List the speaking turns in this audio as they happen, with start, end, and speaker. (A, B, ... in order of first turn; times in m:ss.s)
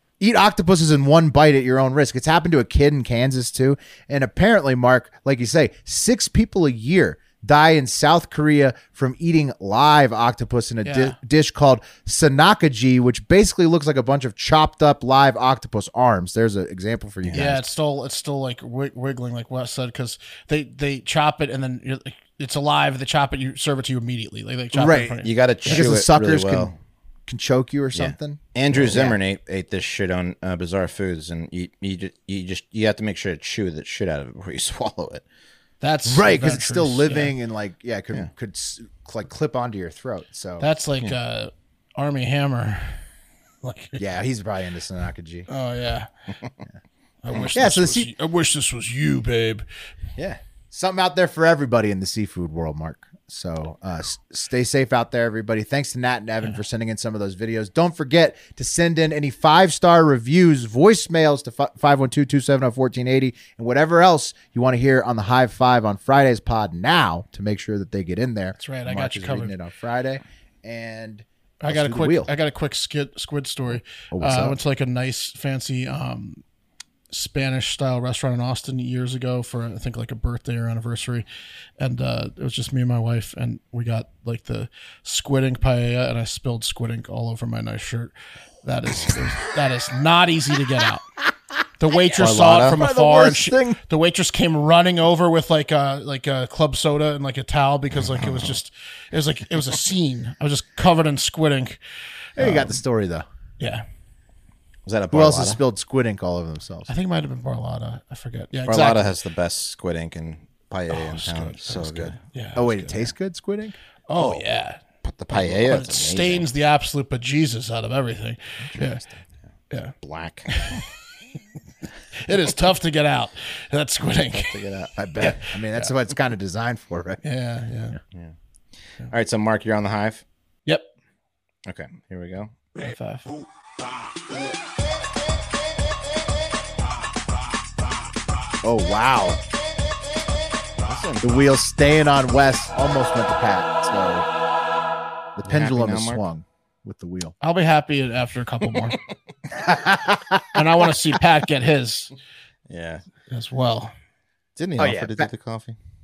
0:00.2-0:17.6 A
0:10.8-0:11.2 B
0:17.4-0:25.9 B
0:24.7-0:26.7 A
0:25.2-0:26.7 C
0:27.3-0:29.2 A
0:27.9-0:35.2 C
0:35.8-0:37.4 B
0:36.1-0:40.6 A
0:40.6-0:43.0 B
0:43.6-0:44.0 B
0:44.0-0:45.5 A
0:45.5-0:46.1 B
0:47.2-0:49.6 B
0:47.4-0:48.1 A
0:50.2-1:12.3 A
1:08.6-1:09.6 B
1:11.6-1:16.4 B
1:14.1-1:14.6 A
1:17.1-1:21.2 B
1:21.8-1:31.1 B
1:31.8-1:41.8 B
1:32.1-1:32.8 C
1:32.6-1:33.8 A
1:38.1-1:38.6 C
1:42.4-1:43.2 A
1:42.4-1:42.8 B
1:44.9-1:45.6 C
1:45.1-1:46.9 A
1:46.9-1:49.1 B
1:48.7-1:52.2 C
1:50.9-1:53.1 B
1:52.6-1:53.8 A
1:54.1-1:54.8 B
1:54.1-1:54.4 C
1:55.0-1:56.5 C
1:55.3-1:59.0 B
2:00.0-2:00.6 C
2:00.5-2:00.8 B
2:02.3-2:04.6 B
2:04.3-2:04.9 C
2:05.0-2:07.2 A
2:05.2-2:05.8 B
2:07.2-2:08.0 B
2:09.0-2:10.2 C
2:11.6-2:12.5 C
2:12.8-2:13.3 B
2:18.6-2:19.4 A
2:20.8-2:21.2 C
2:21.2-2:24.3 A
2:25.4-2:27.3 A
2:25.4-2:26.2 C
2:27.4-2:29.0 B
2:29.5-2:30.4 A
2:30.5-2:32.1 B
2:32.7-2:33.0 C
2:33.3-2:33.9 B
2:34.6-2:35.8 C
2:34.8-2:35.3 A